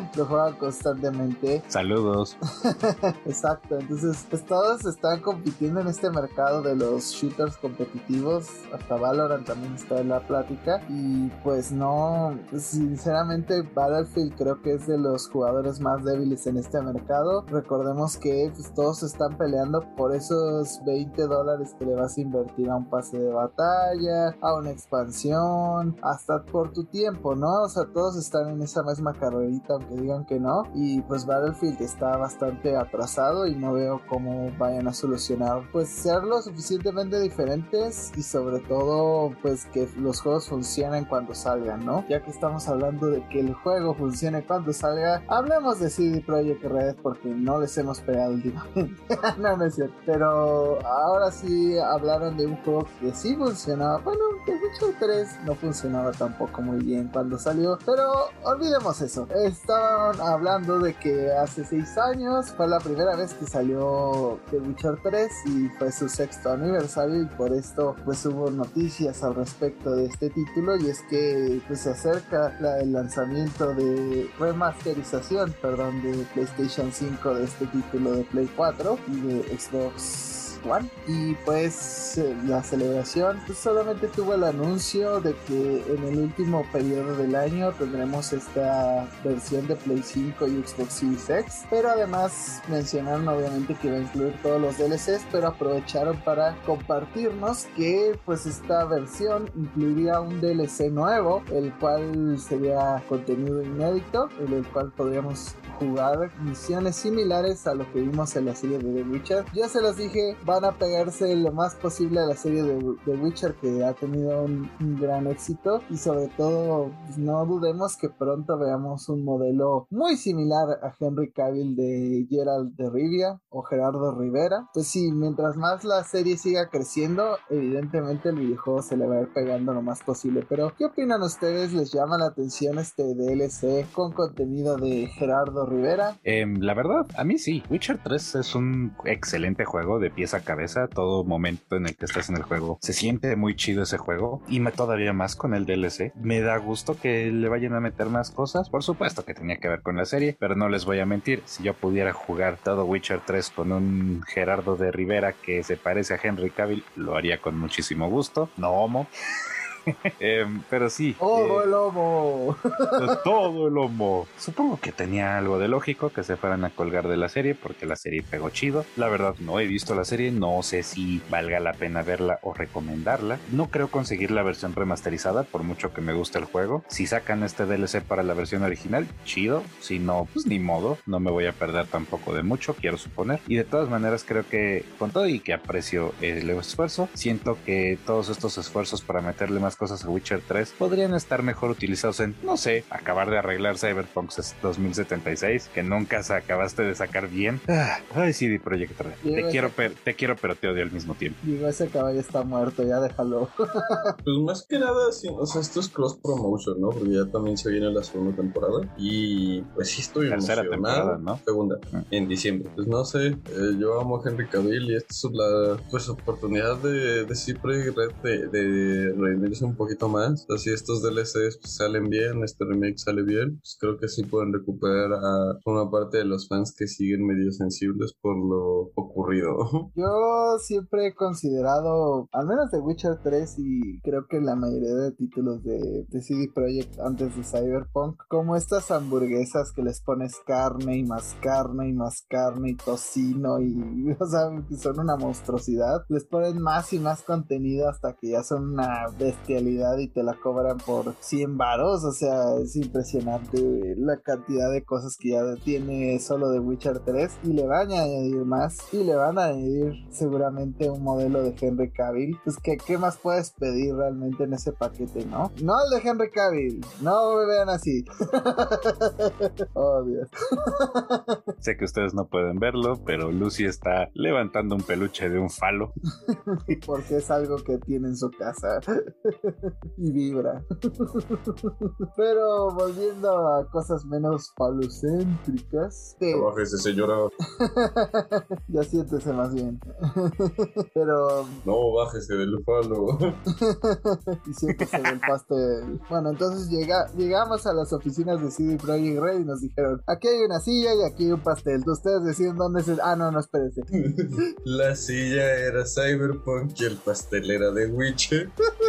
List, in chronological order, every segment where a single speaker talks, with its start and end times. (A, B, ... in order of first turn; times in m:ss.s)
0:00.1-0:01.6 A
0:01.7-0:02.4 B
0:03.2-2:16.2 A
2:16.2-2:39.1 B
2:39.9-2:41.7 B
2:41.2-2:42.5 A
2:43.0-3:21.4 B
3:19.2-3:19.8 A
3:21.4-3:24.0 A
3:24.2-3:49.9 C
3:30.3-3:31.4 B
3:49.9-4:31.4 A
4:31.6-4:35.9 B
4:36.2-4:46.5 A
4:46.3-4:47.3 C
4:47.6-4:51.6 A
4:51.6-4:53.4 C
4:53.6-5:03.9 A
5:03.9-5:08.5 C